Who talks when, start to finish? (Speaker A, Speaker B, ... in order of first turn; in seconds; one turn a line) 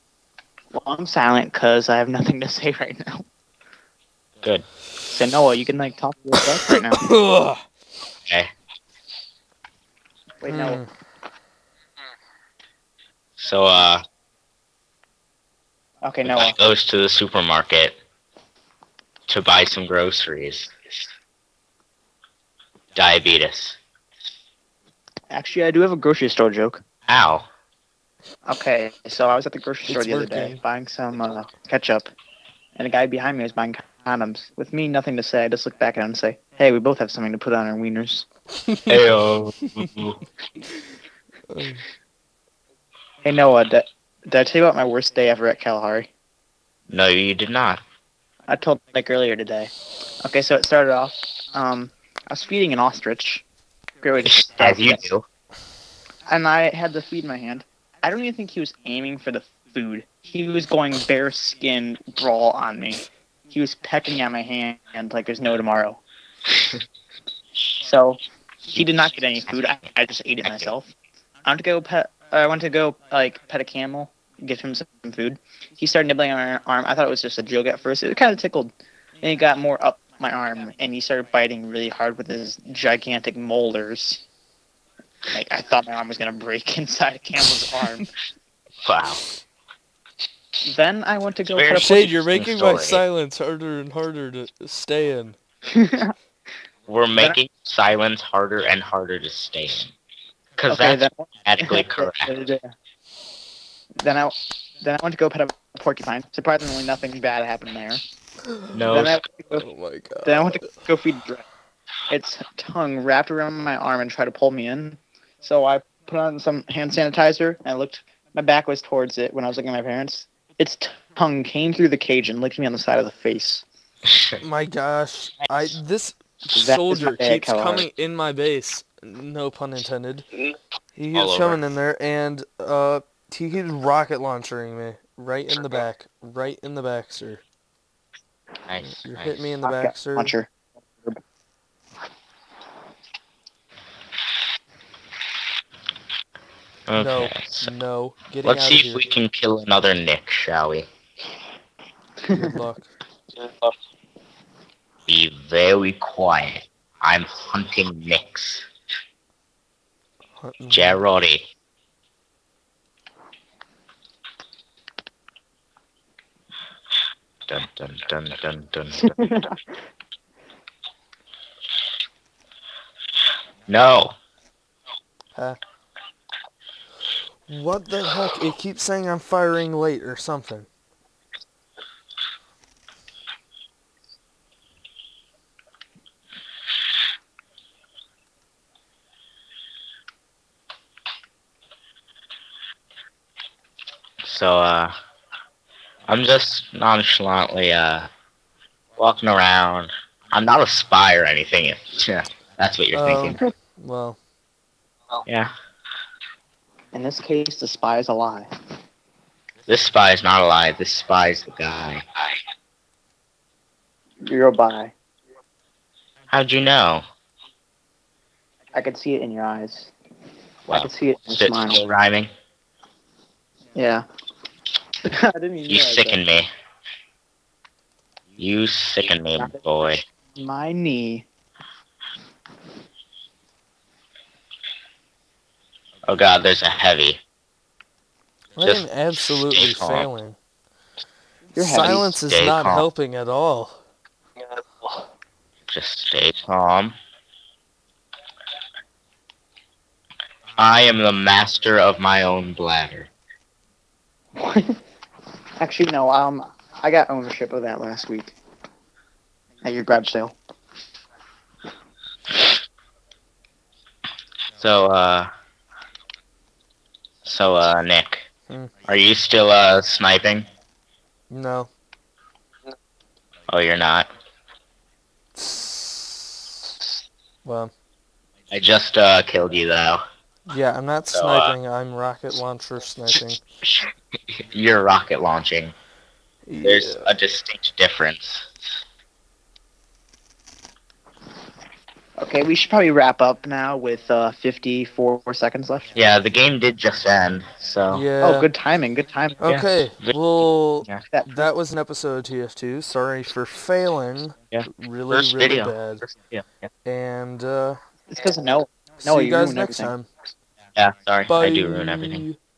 Speaker A: 0.7-3.2
Speaker A: 5.1-7.1
Speaker B: 6.4-7.7
Speaker A: 10.4-10.8
Speaker B: 10.5-10.9
Speaker C: 13.4-14.0
Speaker A: 16.0-16.6
Speaker C: 16.2-18.0
Speaker C: 19.3-20.7
Speaker C: 23.0-23.8
Speaker A: 25.3-26.8
Speaker C: 27.1-27.5
Speaker A: 28.5-32.1
Speaker B: 29.9-30.6
Speaker A: 32.8-38.3
Speaker B: 38.5-39.1
Speaker C: 38.9-40.2
Speaker B: 41.5-41.8
Speaker A: 43.2-46.1
Speaker C: 46.9-47.8
Speaker A: 48.5-49.7
Speaker A: 50.2-53.4
Speaker A: 54.0-55.0
Speaker C: 54.3-55.2
Speaker A: 56.3-66.0
Speaker A: 67.8-70.9
Speaker C: 70.4-70.7
Speaker A: 71.5-84.2
Speaker A: 85.3-88.1
Speaker C: 88.8-89.2
Speaker A: 90.7-92.2
Speaker C: 91.5-93.0
Speaker B: 91.7-95.4
Speaker A: 95.7-96.1
Speaker C: 96.9-99.9
Speaker C: 100.6-102.3
Speaker A: 100.7-102.7
Speaker A: 104.0-108.0
Speaker B: 108.4-109.0
Speaker C: 108.7-109.6
Speaker A: 108.9-109.7
Speaker B: 109.5-110.8
Speaker A: 110.2-111.4
Speaker A: 112.1-123.6
Speaker C: 124.1-124.4
Speaker B: 124.4-130.3
Speaker A: 126.5-127.9
Speaker B: 131.0-137.4
Speaker C: 131.1-131.6
Speaker C: 138.7-139.5
Speaker B: 139.0-140.3
Speaker A: 139.6-140.5
Speaker C: 146.9-147.7
Speaker B: 147.0-149.0
Speaker C: 148.4-150.9
Speaker A: 152.3-152.6
Speaker B: 152.3-152.9
Speaker C: 155.1-158.7
Speaker B: 160.4-161.1
Speaker C: 160.7-161.5
Speaker C: 167.5-169.2
Speaker A: 169.0-169.6
Speaker C: 173.7-174.2
Speaker B: 177.5-180.7
Speaker C: 194.2-194.9
Speaker C: 196.1-198.1
Speaker C: 199.0-203.4
Speaker B: 202.9-204.2
Speaker A: 206.9-208.5
Speaker C: 209.7-212.0
Speaker A: 214.2-214.9
Speaker C: 216.3-217.0
Speaker A: 218.7-219.9
Speaker C: 220.7-222.3
Speaker A: 220.7-221.8
Speaker A: 223.8-224.1
Speaker A: 225.0-226.2
Speaker C: 225.7-226.5
Speaker C: 228.4-230.0
Speaker A: 230.3-231.3
Speaker C: 236.1-237.2
Speaker B: 238.6-240.4
Speaker C: 238.6-240.1
Speaker A: 241.5-242.1
Speaker B: 241.6-243.8
Speaker C: 241.8-242.9
Speaker C: 245.7-246.9
Speaker C: 250.6-253.1
Speaker A: 254.4-254.8
Speaker A: 255.6-258.4
Speaker A: 259.6-260.4
Speaker C: 264.6-265.3
Speaker C: 267.2-268.3
Speaker C: 268.9-270.5
Speaker B: 271.3-271.7
Speaker C: 273.5-274.1
Speaker B: 275.4-276.7
Speaker B: 277.4-277.7
Speaker C: 278.5-280.0
Speaker B: 280.5-283.4
Speaker C: 281.1-281.6
Speaker C: 283.6-285.7
Speaker B: 286.5-287.1
Speaker C: 286.6-288.5
Speaker A: 292.2-295.9
Speaker C: 295.9-298.1
Speaker B: 297.9-298.5
Speaker A: 298.2-299.4
Speaker B: 299.4-306.0
Speaker C: 299.4-300.2
Speaker A: 301.1-301.5
Speaker C: 304.5-306.7
Speaker B: 306.9-307.8
Speaker A: 308.1-309.9
Speaker B: 309.0-310.1
Speaker C: 310.8-312.2
Speaker B: 311.3-312.4